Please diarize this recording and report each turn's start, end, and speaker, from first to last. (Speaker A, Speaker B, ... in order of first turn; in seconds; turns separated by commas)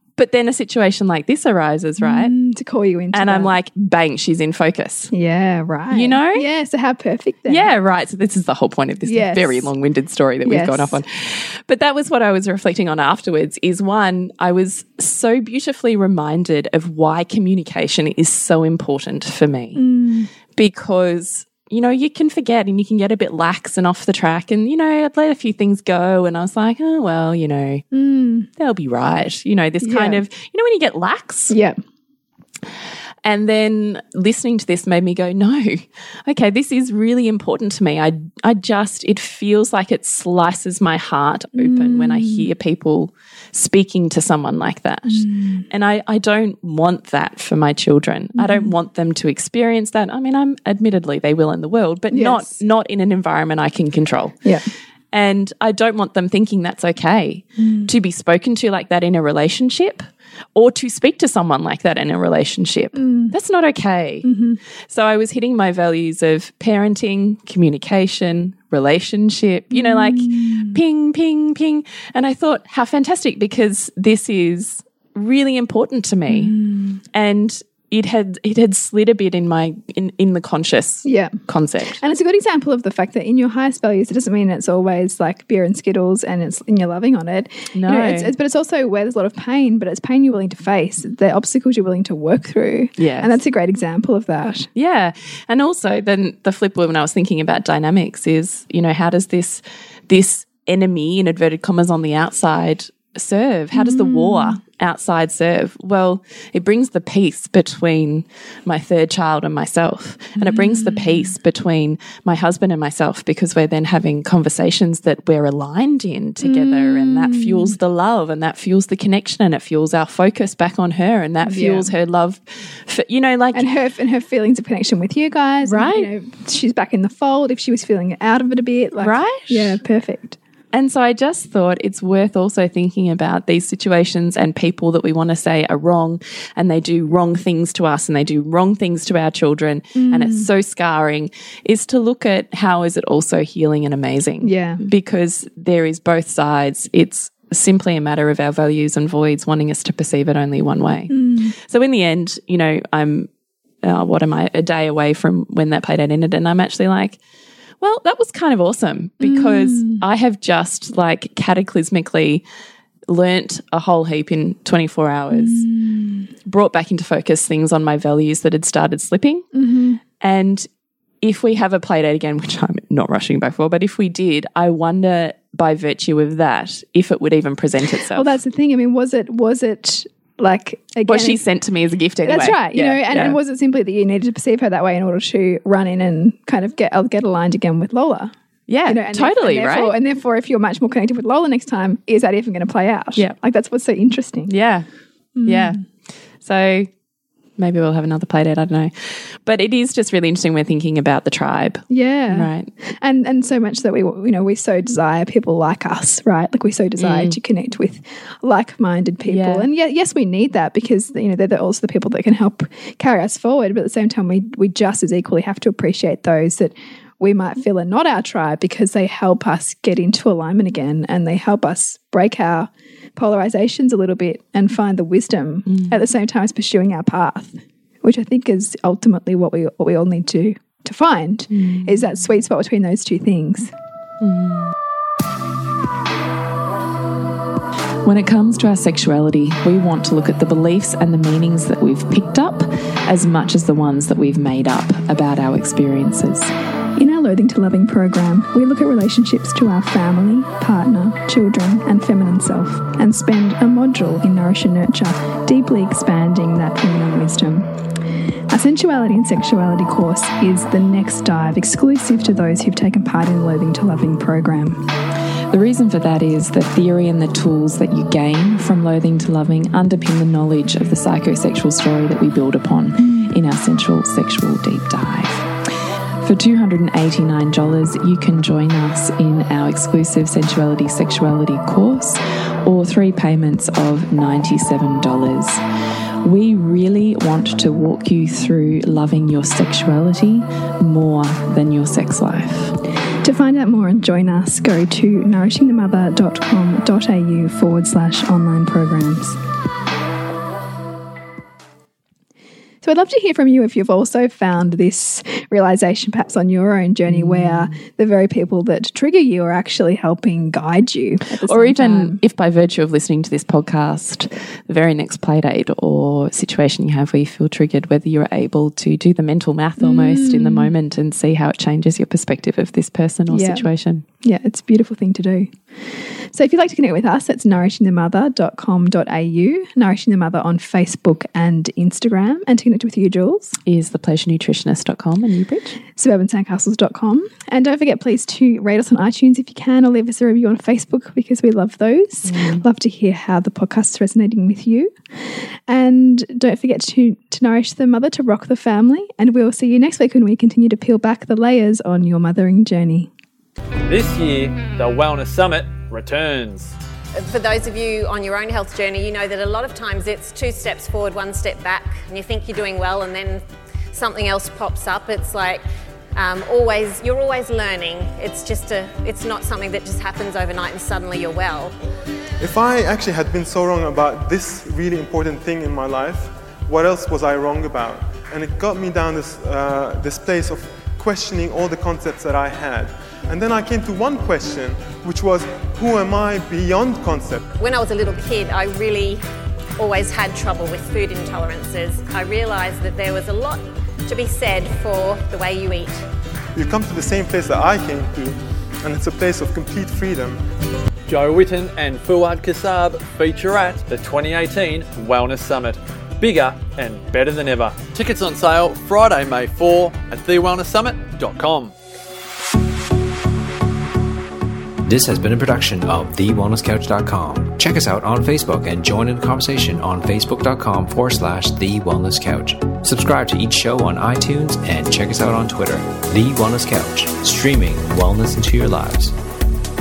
Speaker A: 0.1-2.3, Speaker B: 2.0-3.5, Speaker A: 3.1-5.1, Speaker B: 5.1-7.7, Speaker A: 5.9-6.5, Speaker A: 7.5-19.8, Speaker B: 9.1-9.7, Speaker B: 10.4-11.0, Speaker B: 19.7-20.3, Speaker A: 20.5-27.8, Speaker B: 27.9-28.5, Speaker A: 28.6-31.5, Speaker B: 29.8-30.2, Speaker B: 31.5-31.8, Speaker A: 33.2-54.4, Speaker B: 41.6-42.5, Speaker B: 45.1-45.6, Speaker B: 48.4-48.7, Speaker B: 52.1-52.6, Speaker A: 55.1-60.0, Speaker B: 57.6-57.9, Speaker A: 60.5-64.3, Speaker B: 62.9-63.3, Speaker B: 64.2-64.6, Speaker A: 64.9-76.5, Speaker B: 69.7-70.8, Speaker B: 76.3-77.0, Speaker A: 77.1-82.0, Speaker B: 81.0-81.3, Speaker B: 82.0-94.7, Speaker A: 87.7-88.3, Speaker A: 93.0-93.3, Speaker A: 94.7-123.7, Speaker B: 103.7-104.6, Speaker B: 110.4-111.2, Speaker B: 116.4-117.7, Speaker B: 121.4-121.9, Speaker B: 123.5-130.4, Speaker A: 125.6-126.1, Speaker A: 129.0-129.8, Speaker A: 130.7-153.3, Speaker B: 139.9-140.5, Speaker B: 144.4-144.8, Speaker B: 151.1-151.5, Speaker A: 153.8-157.2, Speaker A: 157.8-162.4, Speaker B: 159.2-160.0, Speaker A: 163.1-165.7, Speaker B: 165.3-166.3, Speaker A: 166.4-169.4, Speaker B: 169.5-170.0, Speaker A: 170.2-170.7, Speaker A: 171.2-178.3, Speaker B: 178.1-181.4, Speaker A: 181.1-183.4, Speaker B: 182.2-188.3, Speaker A: 188.7-189.9, Speaker B: 188.9-194.5, Speaker A: 194.5-194.8, Speaker B: 195.3-195.8, Speaker A: 195.4-195.8, Speaker A: 196.4-196.9, Speaker A: 197.6-202.7, Speaker B: 201.9-233.7, Speaker A: 207.0-207.4, Speaker A: 209.2-209.7, Speaker A: 225.7-226.0, Speaker A: 231.5-232.0, Speaker A: 234.2-234.7, Speaker A: 238.0-246.5, Speaker B: 246.9-257.7, Speaker B: 258.5-264.8, Speaker A: 265.5-275.5, Speaker B: 273.0-273.3, Speaker A: 276.2-285.6, Speaker A: 286.2-292.8, Speaker B: 293.2-299.4, Speaker B: 302.8-312.2, Speaker A: 307.1-307.8, Speaker A: 311.4-324.0, Speaker B: 319.8-320.7, Speaker B: 323.3-323.7, Speaker B: 324.2-333.6, Speaker A: 333.6-335.8, Speaker B: 335.9-344.9, Speaker A: 342.3-342.6, Speaker B: 345.7-353.1, Speaker C: 353.9-356.8, Speaker D: 357.1-365.6, Speaker D: 366.1-371.7, Speaker E: 372.4-387.4, Speaker D: 387.6-389.2, Speaker D: 389.8-396.0, Speaker E: 396.5-400.4, Speaker C: 401.1-411.7, Speaker F: 414.8-429.1